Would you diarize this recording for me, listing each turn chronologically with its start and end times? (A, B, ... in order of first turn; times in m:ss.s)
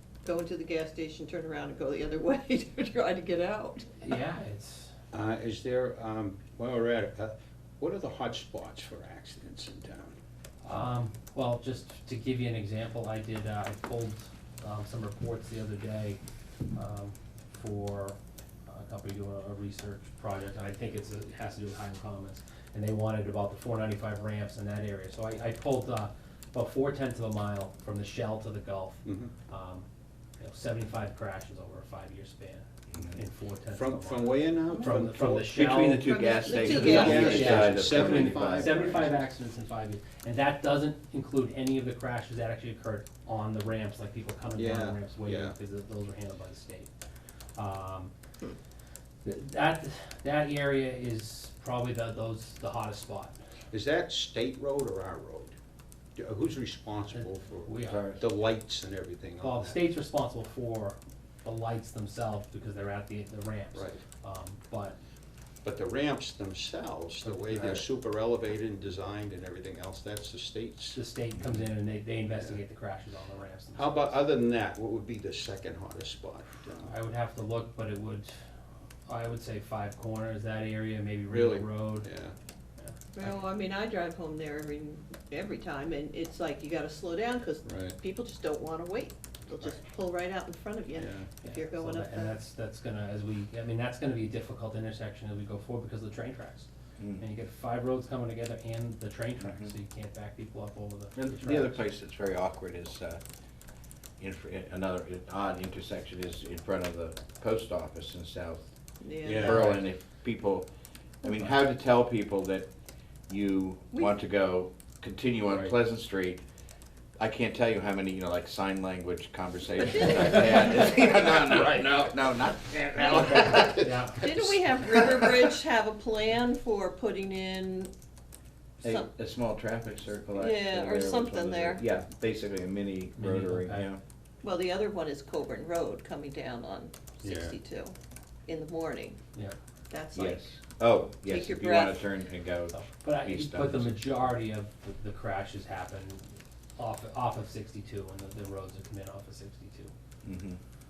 0:00.2-0:03.9 A
0:04.0-0:04.9 B
0:05.1-0:10.2 C
0:10.6-0:16.2 B
0:16.7-0:29.9 B
0:29.0-0:29.3 C
0:30.4-0:36.0 B
0:33.7-0:35.7 C
0:35.5-0:38.9 D
0:36.0-0:37.9 A
0:36.4-0:39.1 C
0:37.2-0:46.9 B
0:44.6-0:45.6 C
0:47.6-0:48.1 B
0:49.2-0:53.4 B
0:53.7-0:55.5 C
0:56.2-0:59.8 C
0:57.1-0:58.1 B
0:57.8-0:58.2 D
0:59.4-1:05.0 B
1:03.7-1:04.0 C
1:05.6-1:11.0 C
1:07.5-1:07.8 B
1:10.9-1:14.1 B
1:12.3-1:12.6 C
1:13.7-1:16.9 C
1:16.8-1:18.3 B
1:19.0-1:22.1 B
1:21.3-1:22.3 C
1:23.1-1:32.4 A
1:27.6-1:28.0 C
1:31.0-1:31.3 C
1:31.4-1:41.8 B
1:37.0-1:37.2 D
1:39.4-1:39.7 D
1:41.2-1:43.2 D
1:44.2-1:48.7 D
1:49.0-1:49.7 A
1:49.2-1:49.9 C
1:49.2-1:50.7 D
1:51.2-1:52.7 D
1:53.3-1:56.4 D
1:57.2-2:03.9 D
1:59.9-2:01.0 A
2:03.7-2:04.2 B
2:04.2-2:07.9 A
2:08.8-2:14.0 D
2:08.8-2:09.1 A
2:10.3-2:11.8 A
2:13.2-2:13.9 B
2:14.4-2:17.9 A
2:17.2-2:17.5 C
2:18.5-2:19.2 A
2:19.9-2:20.5 A
2:20.1-2:23.9 D
2:21.2-2:22.1 A
2:22.7-2:29.9 B
2:30.2-2:30.6 D